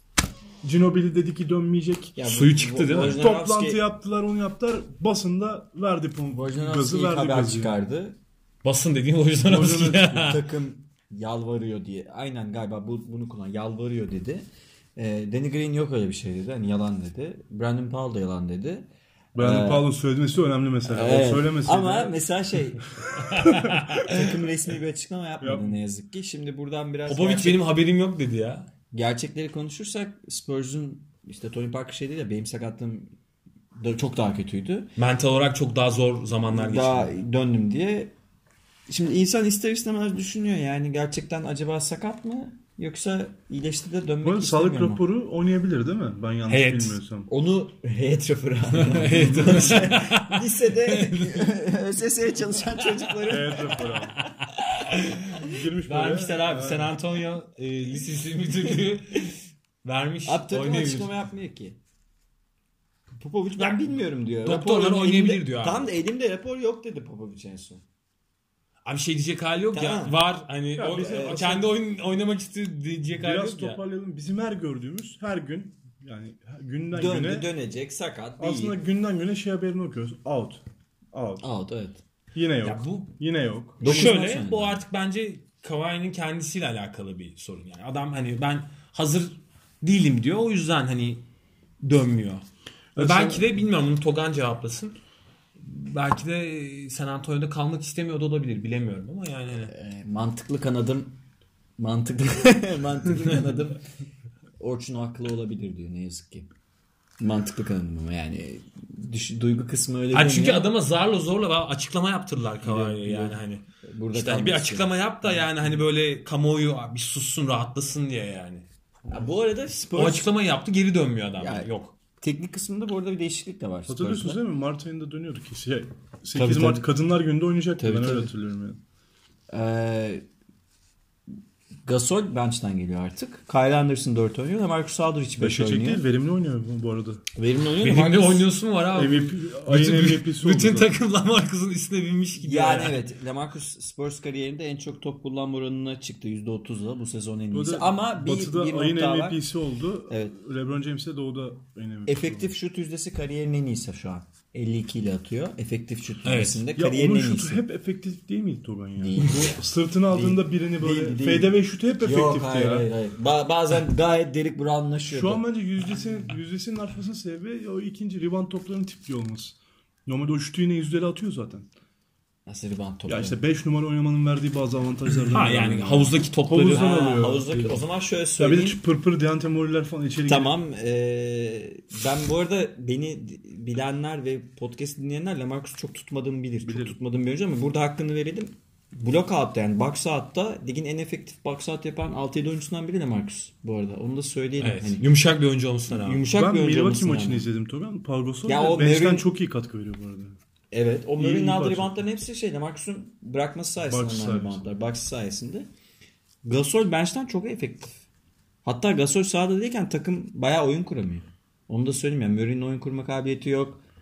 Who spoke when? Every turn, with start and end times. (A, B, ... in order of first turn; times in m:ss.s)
0:00.6-0:02.2 A
0:02.2-0:03.8 B
0:02.2-0:03.2 C
0:03.0-0:07.8 A
0:06.3-0:08.2 B
0:08.6-0:10.5 C
0:09.4-0:10.4 A
0:10.2-0:19.9 B
0:19.4-0:22.2 A
0:20.8-0:22.9 B
0:23.1-0:24.0 A
0:23.2-0:24.1 C
0:24.0-0:27.7 B
0:25.4-0:25.8 A
0:27.1-0:28.7 C
0:28.9-0:33.1 B
0:33.8-0:34.9 B
0:35.0-0:37.1 C
0:36.5-0:38.1 B
0:38.9-0:45.0 B
0:44.2-0:47.3 A
0:46.5-0:47.0 C
0:47.3-0:54.0 B
0:48.8-0:51.5 C
0:48.9-0:49.9 A
0:53.3-0:54.2 A
0:54.2-1:01.1 C
0:55.4-0:57.0 A
1:00.3-1:01.8 B
1:03.2-1:07.8 B
1:03.6-1:03.9 C
1:04.4-1:05.9 C
1:08.8-1:13.8 C
1:09.7-1:10.2 B
1:10.8-1:11.6 A
1:10.9-1:11.7 B
1:13.2-1:17.5 A
1:16.9-1:18.8 B
1:18.4-1:21.4 A
1:21.4-1:22.0 B
1:22.3-1:24.2 A
1:22.6-1:23.1 C
1:23.8-1:24.8 B
1:23.8-1:31.2 C
1:31.8-1:35.0 C
1:33.0-1:33.5 A
1:35.6-1:39.7 C
1:39.7-1:41.2 B
1:41.8-1:43.8 B
1:44.6-1:46.5 B
1:47.2-1:50.7 B
1:50.1-1:58.7 C
1:52.6-1:54.9 B
1:59.1-2:00.3 B
2:00.0-2:02.0 C
2:01.4-2:04.4 B
2:03.9-2:08.8 A
2:06.3-2:06.9 B
2:07.8-2:08.3 B
2:09.5-2:10.3 B
2:11.9-2:16.0 B
2:15.4-2:17.2 A
2:17.4-2:18.5 B
2:17.8-2:23.1 C
2:18.9-2:21.0 A
2:22.4-2:29.4 B
2:27.5-2:32.6 A
2:30.1-2:30.4 B
2:32.1-2:37.6 B
2:36.2-2:36.7 C
2:36.8-2:42.9 A
2:39.0-2:45.4 B
2:45.1-2:51.7 A
2:52.5-2:53.4 B
2:53.1-2:57.8 A
2:55.3-2:57.6 C
2:56.7-2:58.8 B
2:58.4-3:00.6 A
3:00.3-3:15.1 B
3:06.6-3:07.0 A
3:14.6-3:16.5 C
3:15.9-3:17.5 B
3:16.3-3:20.4 A
3:18.5-3:19.3 B
3:20.7-3:25.7 B
3:21.2-3:22.0 A
3:23.9-3:24.7 A
3:26.4-3:28.0 B
3:28.6-3:33.8 B